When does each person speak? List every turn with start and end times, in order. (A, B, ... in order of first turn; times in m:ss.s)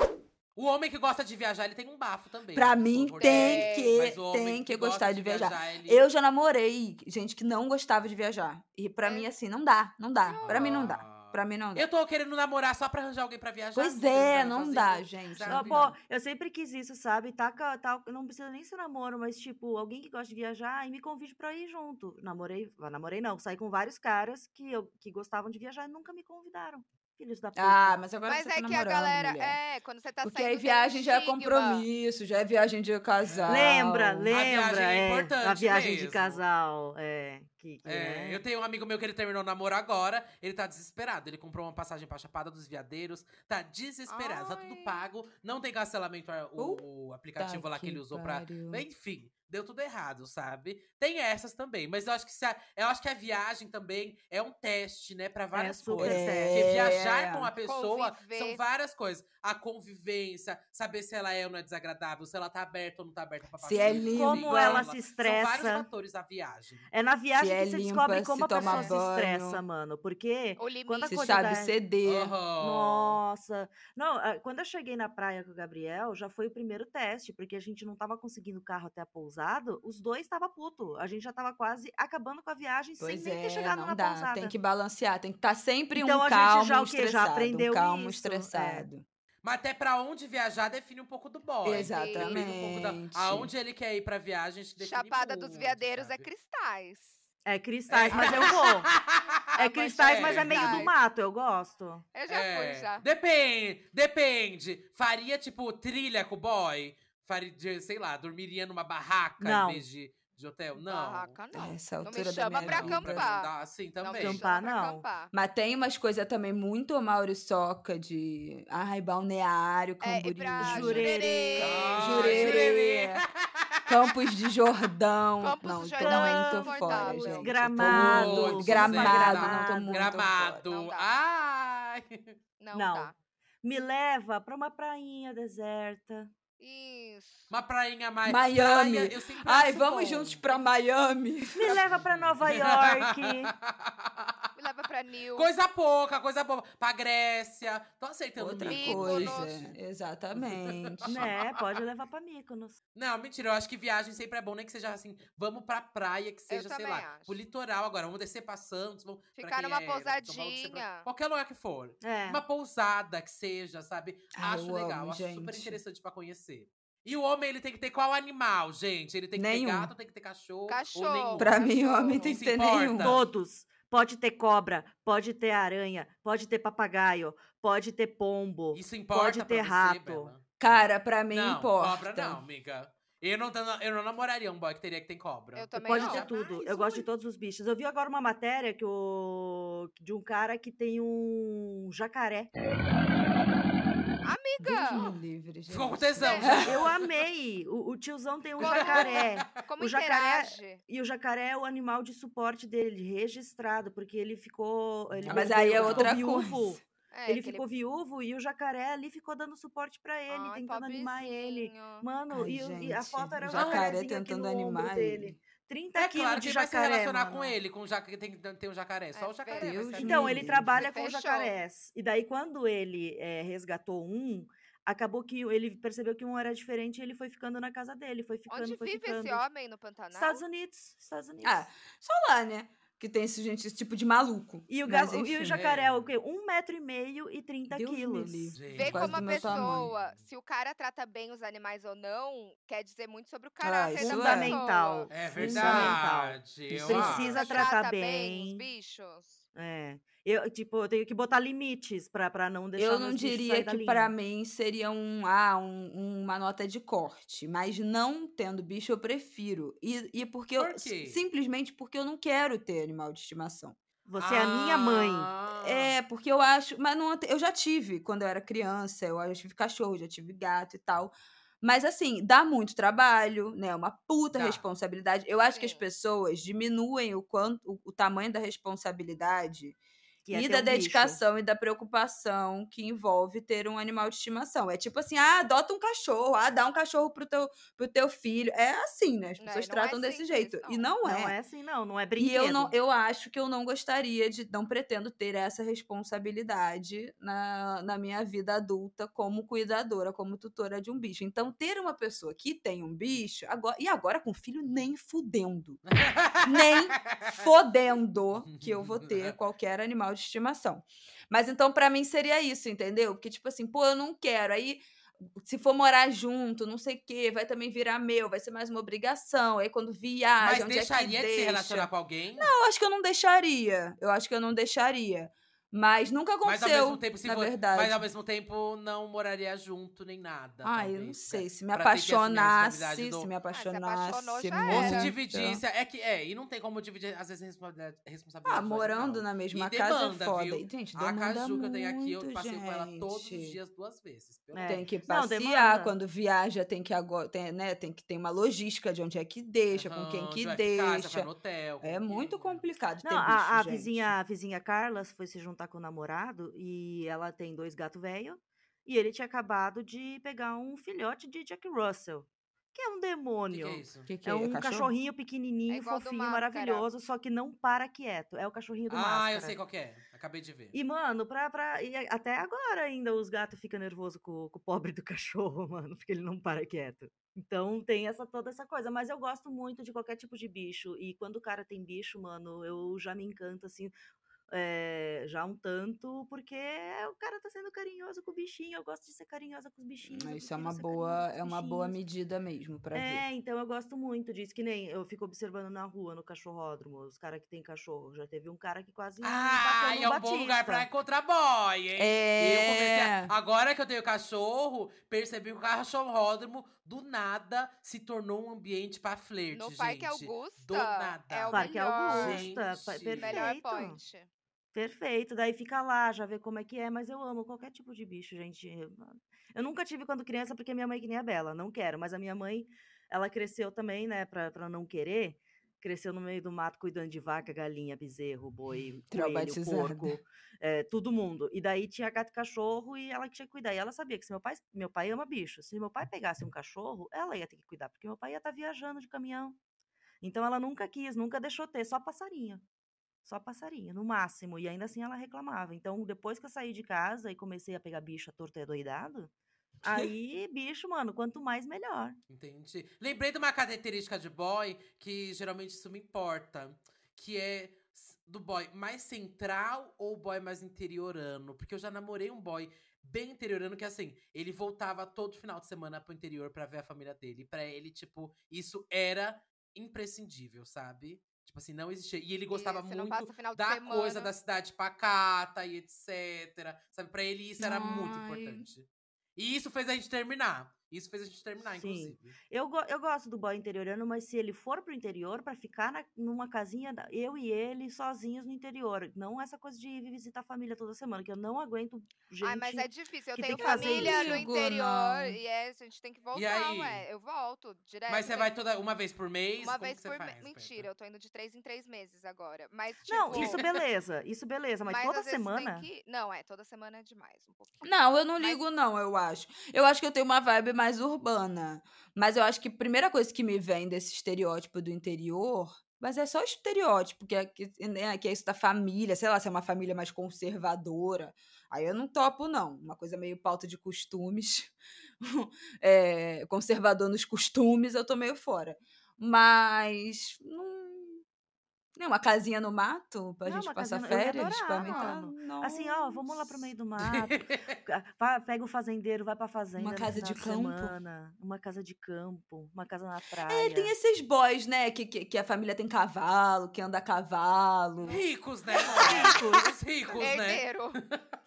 0:00.6-0:06.0 A
0:02.5-0:11.9 B
0:03.2-0:03.9 C
0:09.0-0:09.3 C
0:10.2-0:10.9 C
0:10.4-0:15.9 A
0:13.7-0:15.9 B
0:15.5-0:28.0 D
0:27.6-0:29.6 B
0:28.2-0:31.9 C
0:30.2-0:34.3 B
0:33.2-0:33.8 A
0:33.5-0:38.4 D
0:34.3-0:36.4 A
0:37.8-1:06.9 A
0:44.1-0:45.0 C
0:46.6-0:46.8 B
0:47.4-0:48.8 B
0:55.5-0:56.6 D
0:55.9-0:57.5 B
0:57.6-0:58.6 C
1:03.6-1:04.9 B
1:03.8-1:05.9 D
1:06.9-1:11.8 D
1:07.4-1:09.6 B
1:08.6-1:08.9 A
1:10.6-1:11.2 C
1:11.0-1:12.4 B
1:12.0-1:13.2 A
1:12.6-1:24.5 D
1:23.0-1:29.0 B
1:25.9-1:28.8 D
1:29.4-1:36.3 A
1:31.6-1:33.5 B
1:31.7-1:32.4 C
1:34.8-1:37.2 C
1:37.4-1:38.9 D
1:37.9-1:39.4 A
1:38.1-1:38.5 C
1:39.5-1:40.9 C
1:39.6-1:42.0 D
1:40.0-1:40.9 A
1:42.1-1:43.0 C
1:42.3-1:51.4 A
1:49.4-1:49.8 D
1:50.8-1:55.3 C
1:51.5-1:53.3 B
1:52.6-1:54.4 A
1:54.2-1:55.0 D
1:55.3-2:01.2 B
2:00.0-2:02.7 C
2:00.6-2:02.5 D
2:01.6-2:04.0 A
2:01.9-2:03.2 B
2:03.9-2:10.6 B
2:05.4-2:07.5 C
2:06.0-2:10.1 D
2:07.8-2:12.4 A
2:10.6-2:11.1 C
2:12.6-2:13.1 C
2:12.7-2:13.1 D
2:13.6-2:16.3 D
2:16.6-2:17.5 C
2:17.5-2:20.4 A
2:18.2-2:21.8 B
2:21.5-2:23.5 D
2:21.7-2:24.4 A
2:24.6-2:25.5 C
2:25.3-2:29.7 A
2:28.4-2:31.2 B
2:28.7-2:29.6 C
2:30.4-2:31.8 A
2:31.1-2:32.8 D
2:32.9-2:53.2 A
2:36.5-2:37.4 C
2:39.4-2:41.1 C
2:42.0-2:42.4 D
2:44.4-2:45.8 B
2:49.3-2:49.9 B
2:50.7-2:52.4 C
2:51.4-2:53.2 B
2:53.0-3:00.3 D
2:58.7-3:06.4 A
3:00.6-3:02.4 B
3:05.5-3:06.3 C
3:05.8-3:12.5 D
3:06.6-3:06.9 B
3:14.2-3:15.1 C
3:14.6-3:16.8 B
3:15.7-3:17.0 A
3:16.2-3:16.6 C
3:16.6-3:37.6 D
3:18.6-3:19.4 A
3:18.6-3:20.8 C
3:25.1-3:26.2 A
3:25.2-3:26.8 B
3:27.1-3:27.6 C
3:30.3-3:32.0 C
3:32.3-3:35.4 B
3:33.5-3:33.9 A
3:36.0-3:40.5 A
3:39.1-3:39.9 C
3:39.6-3:40.8 B
3:40.0-3:49.4 D
3:40.7-3:41.5 C
3:48.5-3:50.4 C
3:50.1-3:51.7 D
3:51.4-3:55.6 B
3:54.7-3:58.6 D
3:55.5-3:56.1 A
3:57.7-3:59.9 B
3:58.5-4:00.2 A
3:58.7-4:05.1 C
4:03.6-4:04.6 B
4:04.0-4:08.6 D
4:05.1-4:07.6 A
4:05.4-4:06.0 B
4:06.7-4:07.3 B
4:07.3-4:09.4 C
4:09.5-4:14.1 D
4:12.8-4:23.8 B
4:20.6-4:21.2 A
4:24.0-4:25.3 D
4:24.2-4:26.0 A
4:25.6-4:39.8 B
4:34.3-4:34.6 A
4:35.5-4:35.8 C
4:40.2-4:41.2 D
4:40.3-4:51.3 B
4:49.4-4:50.9 C
4:51.0-4:52.7 D
4:52.2-5:05.8 B
5:05.9-5:07.4 A
5:06.4-5:14.8 B
5:08.5-5:09.4 A
5:15.4-5:28.0 B
5:20.4-5:22.5 A
5:26.4-5:33.3 A
5:30.6-5:35.6 B
5:33.5-5:35.1 C
5:34.7-5:44.9 A
5:38.4-5:43.6 B
5:44.5-5:45.9 D
5:44.6-5:51.3 B
5:49.7-5:52.6 A
5:51.8-5:54.1 B
5:53.0-6:09.6 D
6:03.5-6:04.1 A
6:04.0-6:04.9 B
6:05.7-6:06.9 C
6:08.9-6:10.8 A
6:10.7-6:23.9 D
6:24.5-6:32.0 D
6:30.1-6:33.2 B
6:32.9-6:40.9 D
6:39.2-6:53.4 A
6:42.0-6:43.3 B
6:49.5-6:52.4 C
6:51.5-6:54.0 D
6:52.2-6:52.4 B
6:53.2-6:54.3 C
6:54.7-7:19.6 D
7:09.1-7:10.2 B
7:20.2-7:22.6 D
7:23.2-7:29.3 D
7:29.8-7:32.2 D
7:29.9-7:30.1 B
7:32.3-8:02.4 A
7:52.5-7:54.3 C
7:57.6-7:58.7 B
8:01.7-8:14.4 D
8:12.4-8:18.5 C
8:13.5-8:15.4 B
8:16.3-8:17.0 A
8:18.1-8:20.9 A
8:19.6-8:23.6 C
8:23.1-8:25.9 D
8:23.3-8:23.6 A
8:24.8-8:28.6 C
8:27.8-8:51.2 B
8:52.0-8:56.7 B
8:53.4-9:03.9 D
8:54.8-8:55.1 C
8:57.0-8:57.7 A
8:59.8-9:00.9 B
9:03.5-9:08.2 B
9:08.1-9:11.2 A
9:08.9-9:09.3 B
9:09.0-9:09.7 D
9:10.2-9:11.0 C